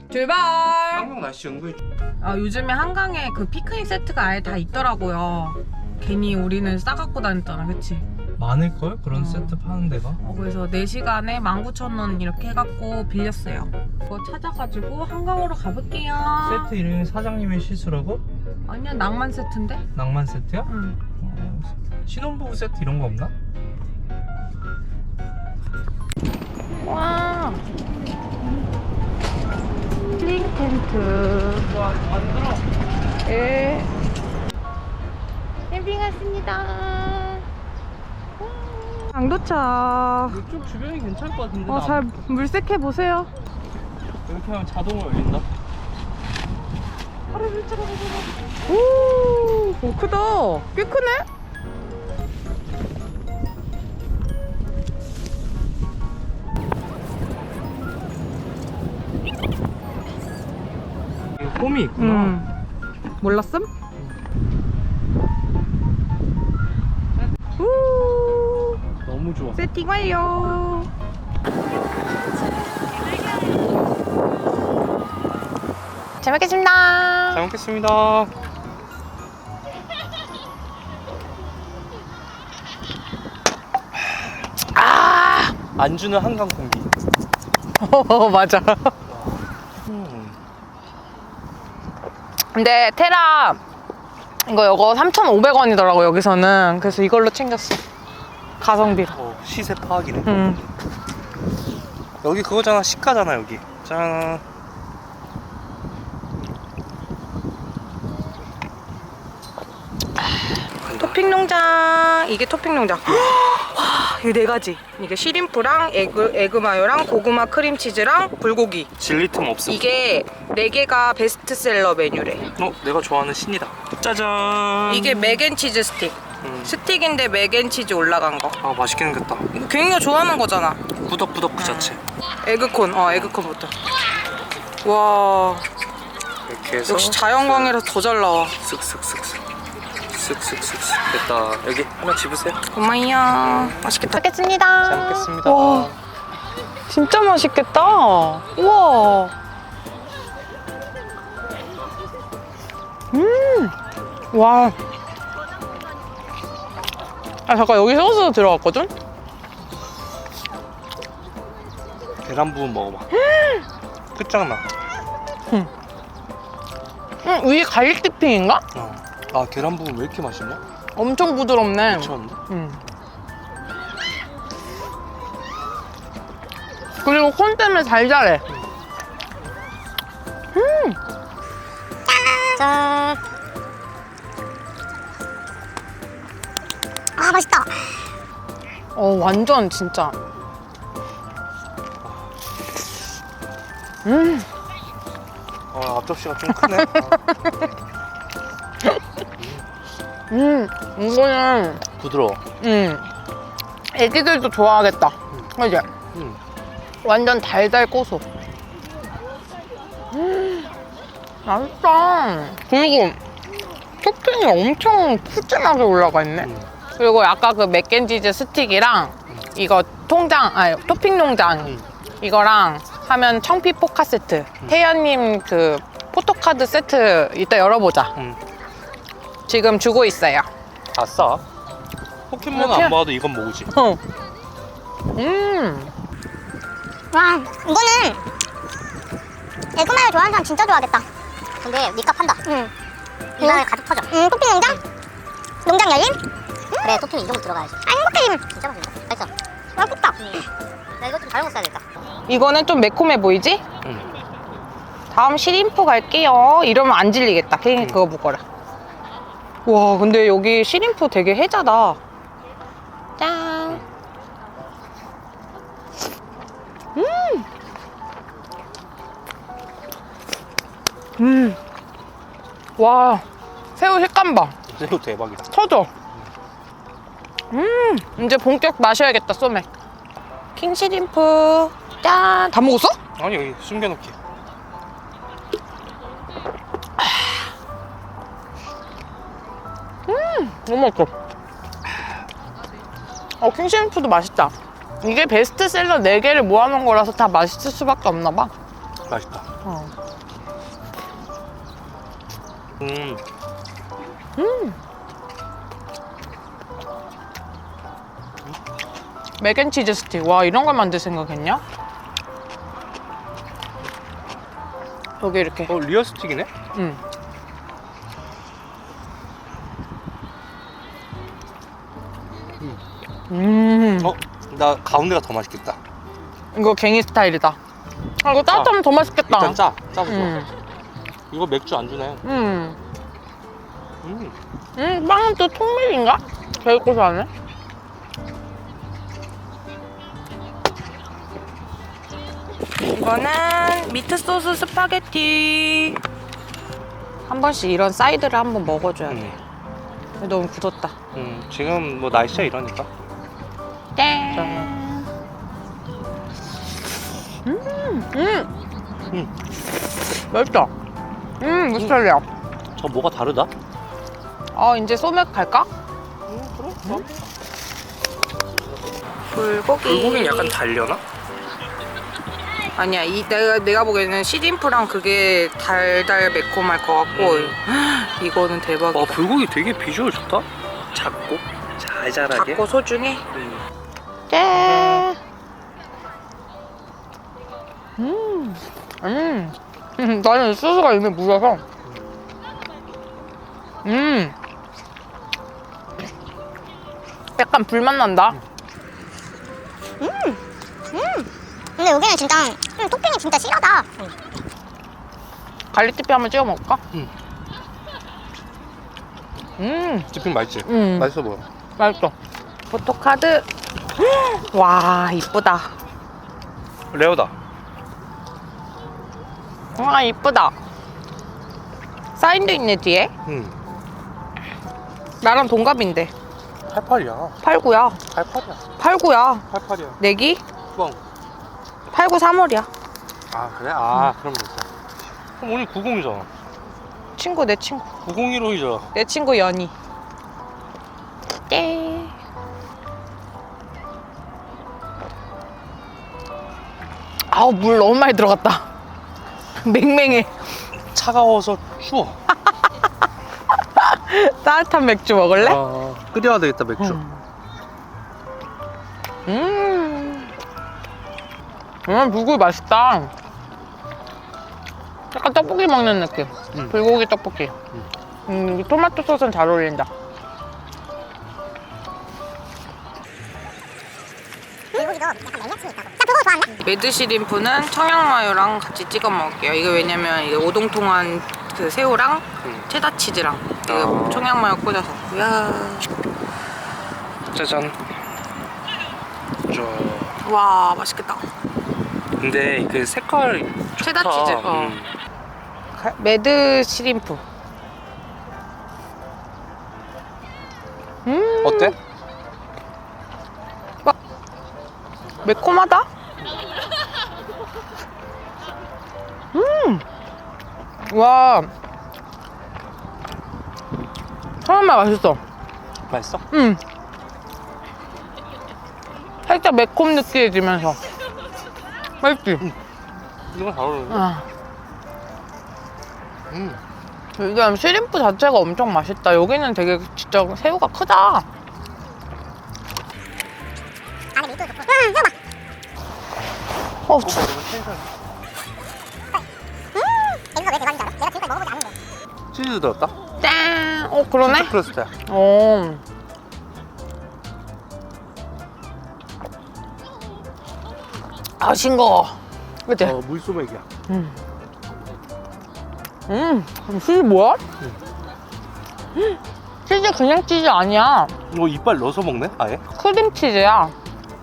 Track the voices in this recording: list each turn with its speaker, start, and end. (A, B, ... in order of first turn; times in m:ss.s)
0:00.1-0:01.1 A
0:00.9-0:01.8 B
0:02.2-0:08.0 A
0:08.4-0:10.2 B
0:09.1-0:09.6 A
0:10.2-0:16.7 A
0:16.4-0:18.2 B
0:18.7-0:19.8 A
0:19.9-0:23.3 B
0:20.6-0:21.0 A
0:26.7-0:27.6 A
0:30.2-0:31.7 A
0:31.8-0:32.6 B
0:33.2-0:33.9 A
0:35.7-0:37.4 A
0:38.4-0:40.4 A
0:40.3-0:42.1 B
0:41.7-0:43.3 A
0:44.2-0:45.4 B
0:47.3-0:48.3 B
0:48.7-0:51.2 A
1:01.4-1:02.4 B
1:02.0-1:02.5 A
1:03.2-1:03.7 A
1:07.6-1:08.8 A
1:09.0-1:09.6 B
1:09.5-1:10.9 A
1:16.2-1:17.4 A
1:17.3-1:18.3 B
1:24.7-1:25.5 A
1:25.8-1:26.9 B
1:27.8-1:28.9 A
1:29.1-1:30.4 B
1:32.5-1:33.6 A
1:34.4-1:37.8 A
1:38.6-1:39.2 A
1:39.1-1:40.4 B
1:40.2-1:40.6 A
1:42.2-1:44.4 B
1:50.8-1:51.2 B
1:51.0-1:58.9 A
1:59.0-1:59.9 B
1:59.7-2:02.5 A
2:02.6-2:05.4 B
2:04.9-2:08.6 A
2:06.4-2:06.8 B
2:08.6-2:09.5 B
2:09.5-2:10.9 A
2:11.0-2:12.0 B
2:11.6-2:13.7 A
2:13.1-2:13.4 B
2:14.8-2:15.6 A
2:16.4-2:17.7 B
2:16.8-2:18.6 A
2:18.6-2:19.4 B
2:20.1-2:22.6 B
2:22.7-2:25.9 A
2:23.5-2:23.8 B
2:24.8-2:26.0 B
2:26.9-2:29.3 A
2:33.1-2:33.7 A
2:34.3-2:34.7 A
2:37.5-2:38.9 A
2:42.2-2:43.1 B
2:43.1-2:43.6 A
2:44.1-2:44.6 B
2:47.2-2:48.6 A
2:48.7-2:50.6 B
2:51.0-2:52.8 A
2:51.8-2:52.4 B
2:57.0-2:58.4 A
3:00.5-3:01.0 A
3:02.1-3:03.2 C
3:07.2-3:07.9 C
3:08.9-3:10.2 A
3:12.0-3:12.3 B
3:14.0-3:14.5 A
3:15.7-3:17.2 B
3:16.8-3:17.1 A
3:19.4-3:19.7 B
3:20.3-3:21.8 A
3:22.0-3:22.4 B
3:22.6-3:23.1 A
3:23.9-3:25.9 A
3:26.1-3:26.4 B
3:27.0-3:28.2 A
3:30.1-3:30.7 A
3:31.4-3:33.2 A
3:34.0-3:48.1 A
3:36.4-3:36.7 B
3:48.2-3:48.4 B
3:49.5-3:50.5 A
3:50.9-3:51.4 B
3:52.3-3:53.7 B
3:52.5-3:53.0 A
3:53.7-3:54.0 A
3:55.2-3:55.9 A
3:57.1-3:58.2 C
3:59.8-4:01.0 C
4:01.6-4:02.7 C
4:03.4-4:04.8 C
4:05.6-4:06.2 C
4:06.8-4:10.5 C
4:11.0-4:11.8 C
4:12.3-4:13.6 A
4:13.8-4:14.1 B
4:15.1-4:18.4 A
4:19.6-4:22.0 A
4:23.2-4:23.8 A
4:26.9-4:27.4 A
4:31.2-4:31.6 A
4:32.8-4:33.2 A
4:33.8-4:34.5 A
4:34.7-4:35.5 B
4:35.5-4:35.9 A
4:37.5-4:39.6 A
4:40.5-4:43.0 A
4:43.2-4:44.2 B
4:47.0-4:47.5 A
4:50.1-4:51.1 A
4:53.4-4:58.5 A
4:59.1-4:59.4 B
4:59.6-4:59.9 A
5:02.8-5:03.2 B
5:04.4-5:04.8 A
5:09.4-5:11.6 A
5:15.2-5:15.7 A
5:15.7-5:16.5 B
5:16.7-5:17.0 A
5:23.3-5:24.1 A
5:24.0-5:25.8 B
5:26.5-5:27.6 A
5:28.2-5:30.5 A
5:28.5-5:30.4 B
5:31.3-5:32.2 B
5:32.2-5:32.8 A
5:34.0-5:34.4 B
5:34.8-5:37.3 A
5:42.8-5:46.0 A
5:47.3-5:49.3 A
5:49.1-5:49.4 B
5:50.2-5:50.9 A
5:51.1-5:52.9 B
5:54.0-5:55.0 A
5:57.4-5:58.5 A
6:00.3-6:00.7 A
6:01.4-6:02.2 A
6:02.8-6:03.5 B
6:04.5-6:05.7 A
6:06.3-6:07.2 B
6:09.3-6:10.6 A
6:09.8-6:11.0 B
6:12.8-6:19.2 A
6:17.1-6:17.6 B
6:18.9-6:22.6 B
6:22.3-6:23.2 A
6:23.3-6:23.6 B
6:24.3-6:25.2 A
6:24.5-6:25.1 B
6:28.0-6:31.6 A
6:33.8-6:34.3 A
6:37.4-6:38.4 A
6:40.0-6:40.4 C
6:40.9-6:44.0 C
6:45.7-6:46.8 A
6:49.6-6:50.1 A
6:50.1-6:51.4 B
6:50.6-6:51.1 A
6:51.8-6:52.1 A
6:52.7-6:53.4 A
6:54.0-6:55.7 A
6:56.9-6:57.3 B
6:59.8-7:00.5 A
7:02.2-7:03.1 A
7:03.2-7:03.6 B
7:05.2-7:06.1 A
7:06.7-7:07.4 B
7:07.4-7:08.0 A
7:08.1-7:08.6 B
7:08.8-7:09.4 A
7:09.5-7:10.0 B
7:10.0-7:10.4 A
7:10.7-7:11.0 B
7:11.9-7:12.7 A
7:13.3-7:14.7 B
7:15.2-7:16.3 B
7:17.2-7:17.9 A
7:18.0-7:18.9 B
7:18.9-7:19.7 A
7:21.5-7:22.1 A
7:27.3-7:28.7 A
7:29.6-7:30.3 A
7:30.9-7:32.2 B
7:33.8-7:35.6 A
7:35.4-7:37.0 B
7:36.8-7:37.2 A
7:39.3-7:40.3 A
7:41.8-7:43.1 A
7:45.1-7:47.5 A
7:48.3-7:49.9 A
7:54.7-7:56.6 C
7:56.6-8:05.9 A
8:03.6-8:04.3 B
8:07.3-8:07.8 B
8:09.5-8:10.2 B
8:10.2-8:11.2 A
8:12.2-8:14.9 B
8:13.8-8:14.8 A
8:15.7-8:17.2 A
8:21.0-8:21.7 A
8:21.4-8:21.7 B
8:25.2-8:25.9 A
8:29.3-8:29.8 A
8:30.8-8:31.5 A
8:34.4-8:35.2 A
8:35.9-8:36.2 B
8:36.3-8:36.6 A
8:39.2-8:40.8 A
8:42.0-8:42.4 A
8:43.3-8:44.0 B
8:43.9-8:44.2 A
8:46.3-8:46.6 B
8:47.2-8:51.2 A
8:54.1-8:55.1 C
8:56.9-8:57.2 A
8:56.9-8:57.9 B
8:59.7-9:01.7 C
9:02.3-9:02.9 B
9:03.2-9:04.5 A
9:04.2-9:04.9 B
9:05.1-9:05.8 A
9:11.4-9:13.0 A
9:12.8-9:13.6 B
9:13.9-9:14.2 A
9:16.1-9:17.4 A
9:19.0-9:21.1 A
9:21.3-9:22.6 B
9:22.7-9:23.7 A